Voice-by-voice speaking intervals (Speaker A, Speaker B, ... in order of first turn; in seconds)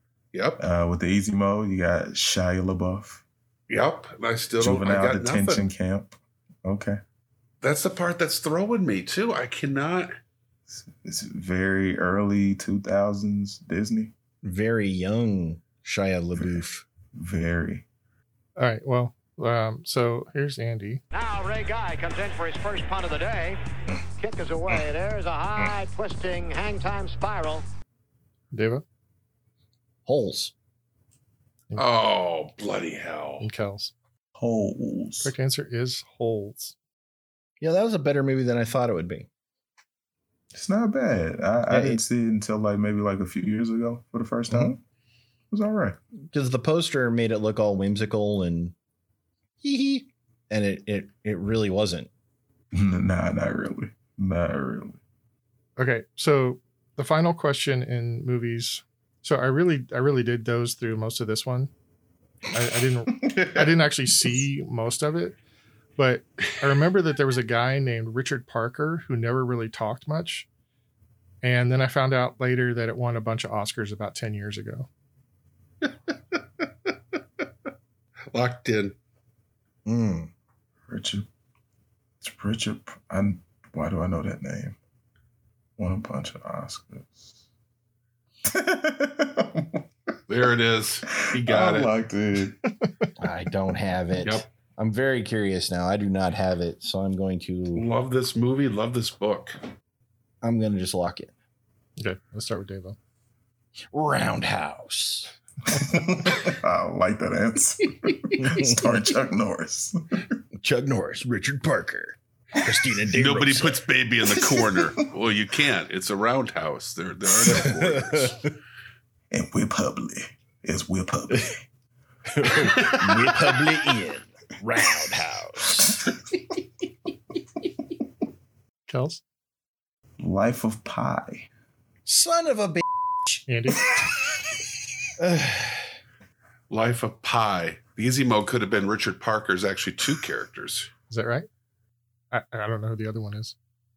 Speaker A: 0.3-0.6, 3.7-5.7, 7.6-10.1, 31.8-33.5, 75.8-76.9, 78.3-78.9, 90.3-91.9, 94.2-94.5, 97.7-99.6, 113.1-118.5, 122.5-123.5, 136.7-140.9
Speaker B: 0.6-3.2, 4.6-7.0, 10.7-14.1, 16.4-16.6, 17.1-17.9, 34.4-35.3, 40.5-44.8, 45.5-46.0, 52.7-55.0, 63.2-63.9, 80.9-81.3, 82.2-84.8, 85.8-87.3, 88.5-89.9, 91.2-92.6, 105.7-110.3, 119.3-121.6, 130.2-131.5
Speaker C: 14.4-16.8, 30.1-30.5, 37.6-39.3, 41.7-42.0, 44.5-44.8, 46.3-48.7, 49.6-52.1, 79.9-80.3, 93.2-97.9, 100.4-101.3, 103.9-105.3, 108.3-109.1, 110.6-114.9, 117.3-118.5, 122.3-126.0, 132.1-133.4, 135.2-135.9
Speaker D: 18.6-21.0, 28.5-28.8, 33.4-33.9, 35.2-36.8, 55.8-61.7, 62.5-65.4, 66.0-70.5, 71.4-74.9, 102.0-103.0, 128.9-129.2, 133.5-133.8, 141.1-141.5, 142.3-143.6
Speaker E: 21.1-23.6, 24.2-27.6